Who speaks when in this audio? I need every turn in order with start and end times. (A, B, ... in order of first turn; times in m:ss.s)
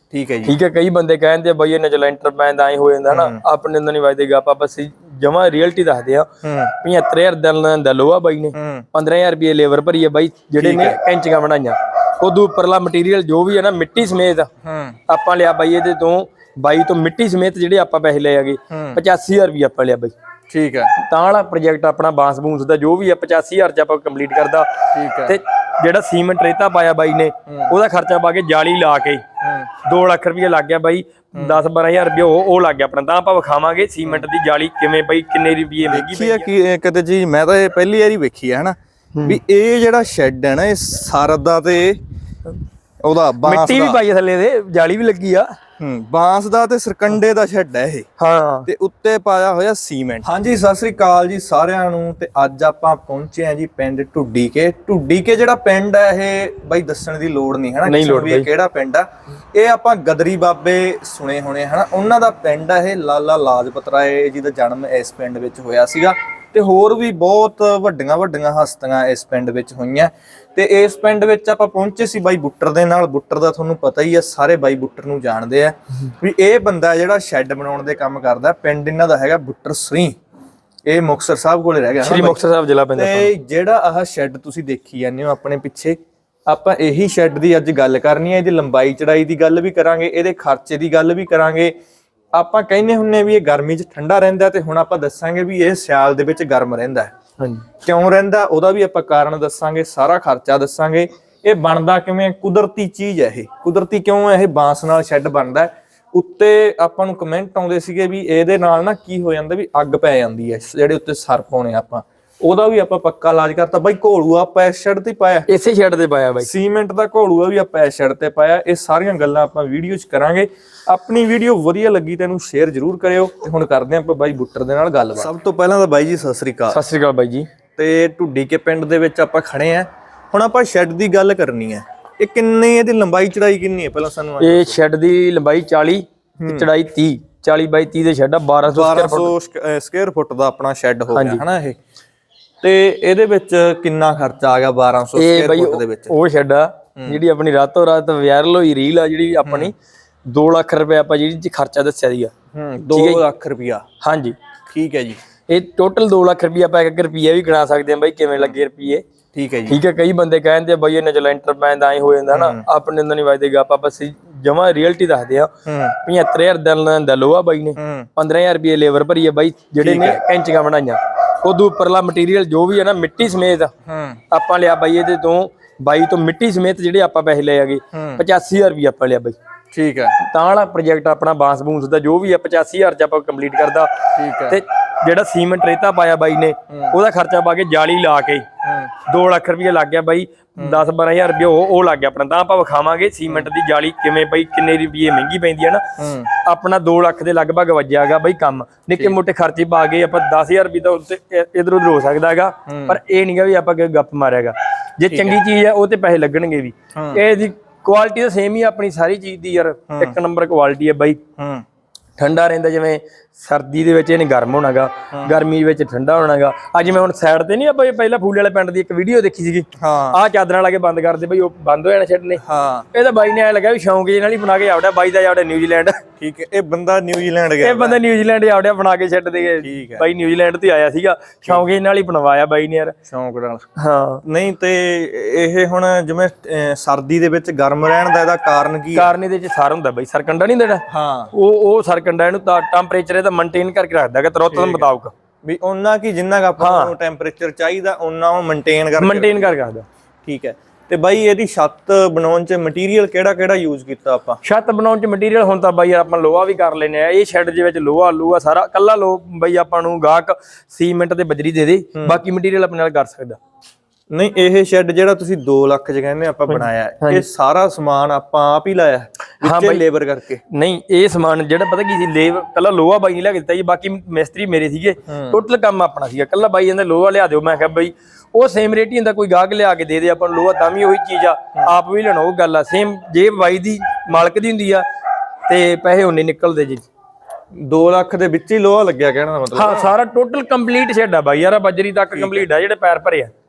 0:00.1-0:00.6 A
0:00.5-0:14.5 B
0:03.1-0:03.4 A
0:06.4-0:06.7 A
0:08.5-0:08.9 A
0:10.6-0:11.0 A
0:14.6-0:15.0 A
0:15.1-0:20.1 B
0:18.7-0:19.0 A
0:20.5-0:20.9 A
0:21.0-0:29.2 B
0:24.9-0:25.4 A
0:27.5-0:27.7 A
0:29.4-0:29.7 A
0:29.8-0:36.5 B
0:31.3-0:31.6 A
0:35.9-0:42.0 A
0:43.0-0:44.0 A
0:43.4-0:45.5 B
0:45.8-0:48.1 A
0:48.2-0:48.7 B
0:48.7-1:20.2 A
0:57.9-0:58.5 B
1:20.9-1:22.4 A
1:22.0-1:23.3 B
1:23.0-1:31.7 A
1:32.3-1:37.1 A
1:37.4-1:37.6 B
1:37.8-1:55.5 A
1:55.5-1:56.5 B
1:56.4-2:06.8 A
2:06.7-2:07.5 B
2:07.8-2:14.8 A
2:14.4-2:19.3 B
2:16.4-2:16.7 A
2:18.7-2:21.8 A
2:21.1-2:21.4 B
2:22.6-2:26.1 A
2:25.2-2:29.7 B
2:29.4-2:29.7 A
2:30.3-2:32.3 B
2:32.5-2:33.8 A
2:32.9-2:33.2 B
2:34.0-2:34.4 B
2:34.7-2:35.2 A
2:35.5-2:39.0 B
2:39.3-2:39.8 A
2:39.7-2:53.7 B
2:42.3-2:42.6 A
2:45.7-2:45.9 A
2:47.8-2:48.1 A
2:49.8-2:50.2 A
2:53.9-2:54.2 A
2:54.3-2:59.4 B
2:57.9-2:58.2 A
2:59.7-3:00.2 A
3:00.2-3:03.9 B
3:04.2-3:04.6 A
3:04.5-3:08.5 B
3:06.7-3:07.0 A
3:08.6-3:08.9 A
3:09.1-3:15.8 B
3:10.6-3:10.8 A
3:16.0-3:16.3 A
3:16.4-3:31.2 B
3:22.7-3:23.0 A
3:25.1-3:25.4 A
3:27.0-3:27.2 A
3:29.9-3:30.2 A
3:31.4-3:31.6 A
3:32.2-3:46.0 B
3:39.8-3:40.2 A
3:42.4-3:42.9 A
3:46.2-3:48.0 A
3:47.6-3:53.0 B
3:49.6-3:50.1 A
3:53.1-3:53.6 A
3:53.8-3:54.2 B
3:54.2-3:59.1 A
3:59.0-4:05.1 B
4:00.9-4:01.3 A
4:04.5-4:04.9 A
4:05.4-4:09.6 A
4:06.6-4:06.9 B
4:09.0-4:09.8 B
4:10.3-4:14.4 A
4:14.4-4:23.4 B
4:22.0-4:22.2 A
4:24.1-4:30.4 A
4:26.5-4:27.2 B
4:29.4-4:29.8 B
4:30.5-4:44.8 B
4:35.1-4:35.4 A
4:45.5-4:46.9 B
4:47.6-4:49.9 A
4:49.5-4:53.3 B
4:52.1-4:52.5 A